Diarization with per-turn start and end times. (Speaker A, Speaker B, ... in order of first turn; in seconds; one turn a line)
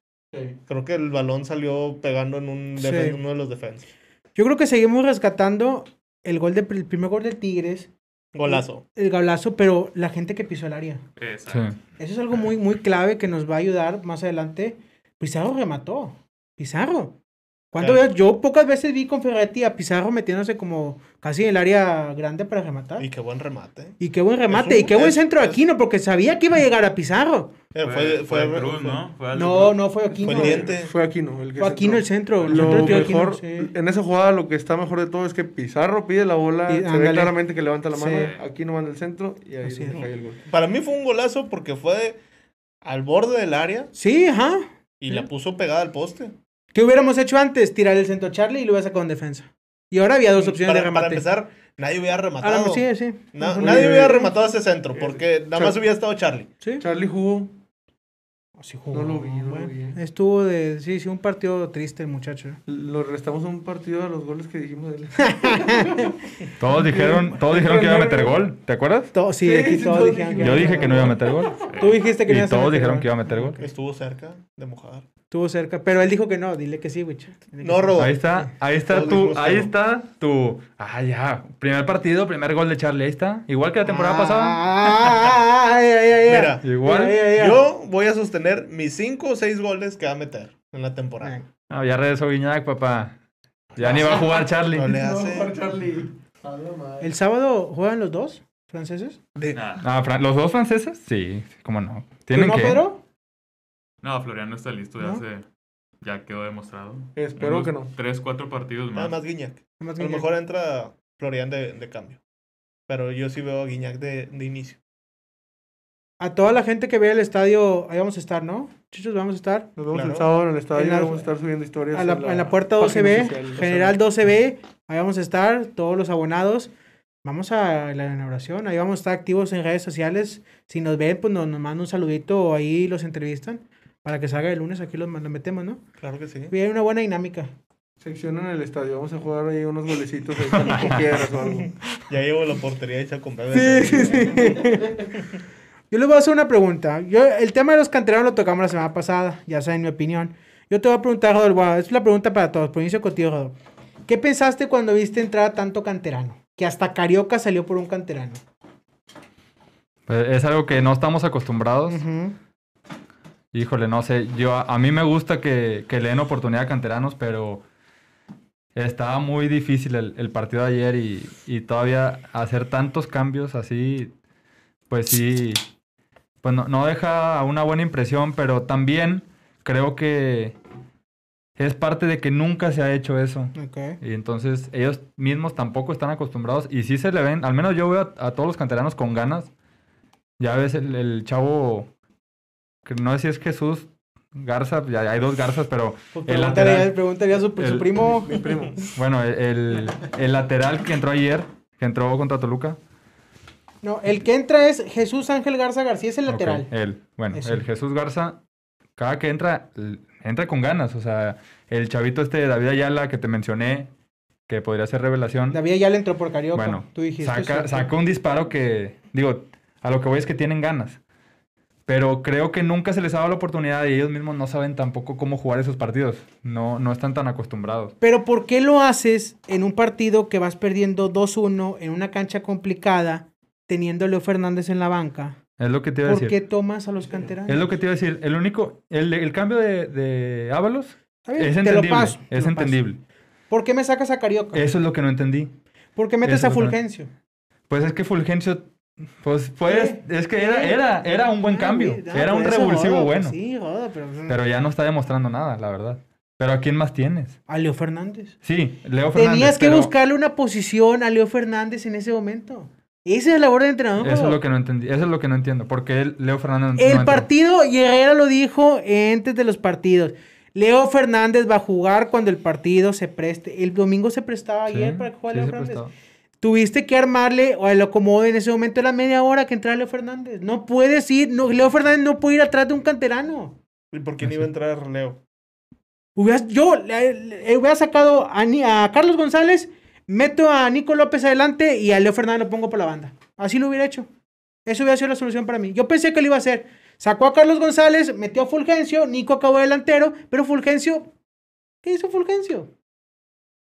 Speaker A: 0.3-0.6
Speaker B: 0.7-3.9
Speaker C: 2.8-3.2
Speaker C: 4.3-7.9
Speaker B: 8.3-8.8
Speaker C: 8.4-11.0
Speaker D: 11.2-11.8
Speaker E: 11.5-11.8
Speaker C: 12.0-17.1
Speaker C: 17.7-23.1
Speaker B: 17.8-18.0
Speaker B: 23.0-24.0
Speaker C: 24.0-27.5
Speaker B: 24.5-25.6
Speaker B: 27.7-29.0
Speaker D: 27.8-29.8
Speaker C: 29.3-30.7
Speaker B: 30.2-30.9
Speaker A: 30.3-40.4
Speaker C: 31.6-33.7
Speaker B: 32.5-33.0
Speaker C: 36.7-37.4
Speaker C: 37.9-38.3
Speaker C: 39.6-40.0
Speaker B: 40.0-42.2
Speaker B: 42.8-43.9
Speaker C: 43.9-45.2
Speaker B: 45.0-46.3
Speaker C: 46.7-51.2
Speaker B: 50.4-56.5
Speaker C: 52.4-54.3
Speaker A: 53.5-54.2
Speaker A: 54.9-55.2
Speaker A: 56.8-57.5
Speaker C: 58.6-62.6
Speaker A: 58.9-60.0
Speaker A: 62.7-66.1
Speaker C: 65.2-66.1
Speaker E: 66.6-69.1
Speaker A: 66.7-68.4
Speaker C: 69.1-71.2
Speaker A: 69.4-71.4
Speaker E: 70.4-71.6
Speaker D: 71.7-72.0
Speaker C: 71.8-73.7
Speaker E: 72.2-73.6
Speaker B: 73.6-75.0
Speaker C: 75.3-78.5
Speaker B: 77.6-78.2
Speaker E: 78.0-85.1
Speaker B: 78.9-79.7
Speaker C: 83.8-87.6
Speaker B: 86.3-91.4
Speaker E: 86.6-87.2
Speaker E: 91.7-93.2
Speaker E: 93.8-94.9
Speaker A: 93.8-97.1
Speaker B: 94.7-95.5
Speaker C: 97.0-99.2
Speaker B: 99.3-99.6
Speaker D: 99.5-99.8
Speaker E: 99.8-102.8
Speaker C: 102.3-103.0
Speaker D: 104.0-105.4
Speaker D: 106.0-109.1
Speaker A: 107.1-107.9
Speaker B: 108.9-112.2
Speaker C: 109.8-110.3
Speaker B: 112.9-114.8
Speaker C: 116.2-119.7
Speaker A: 119.8-124.0
Speaker B: 119.9-120.3
Speaker C: 120.7-121.3
Speaker C: 121.9-126.7
Speaker C: 127.2-135.8
Speaker B: 136.0-136.5
Speaker C: 136.5-137.5
Speaker A: 138.0-141.8
Speaker E: 140.5-141.1
Speaker B: 142.1-144.4
Speaker C: 143.5-145.1
Speaker A: 144.3-144.6
Speaker C: 145.9-153.6
Speaker C: 154.1-158.4
Speaker E: 160.1-162.0
Speaker C: 161.9-162.4
Speaker E: 163.5-167.6
Speaker E: 168.7-174.1
Speaker E: 174.9-175.6
Speaker E: 176.4-180.6
Speaker E: 181.6-189.5
Speaker C: 183.5-184.0
Speaker E: 190.4-191.9
Speaker E: 192.8-198.0
Speaker C: 196.1-198.4
Speaker A: 198.2-198.9
Speaker E: 198.9-202.8
Speaker C: 203.8-206.7
Speaker E: 206.3-208.4
Speaker C: 207.3-207.6
Speaker E: 208.9-213.9
Speaker E: 214.5-215.6
Speaker C: 215.5-217.9
Speaker E: 216.5-221.0
Speaker E: 221.9-227.9
Speaker C: 228.0-235.4
Speaker E: 235.6-236.3
Speaker C: 236.0-237.7
Speaker A: 237.1-237.3
Speaker E: 237.5-243.0
Speaker C: 241.2-242.8
Speaker C: 243.5-244.7
Speaker E: 244.5-245.5
Speaker C: 245.9-247.1
Speaker E: 246.2-246.8
Speaker E: 247.7-248.7
Speaker E: 249.2-253.3
Speaker C: 249.7-254.4
Speaker E: 254.3-257.4
Speaker C: 257.5-258.4
Speaker E: 258.4-259.9
Speaker C: 259.1-264.4
Speaker E: 264.0-267.3
Speaker C: 266.8-275.8
Speaker E: 274.7-275.9
Speaker C: 276.4-283.6
Speaker B: 283.9-285.2
Speaker E: 284.2-284.5
Speaker C: 286.1-294.1
Speaker C: 294.6-301.1
Speaker C: 301.8-302.7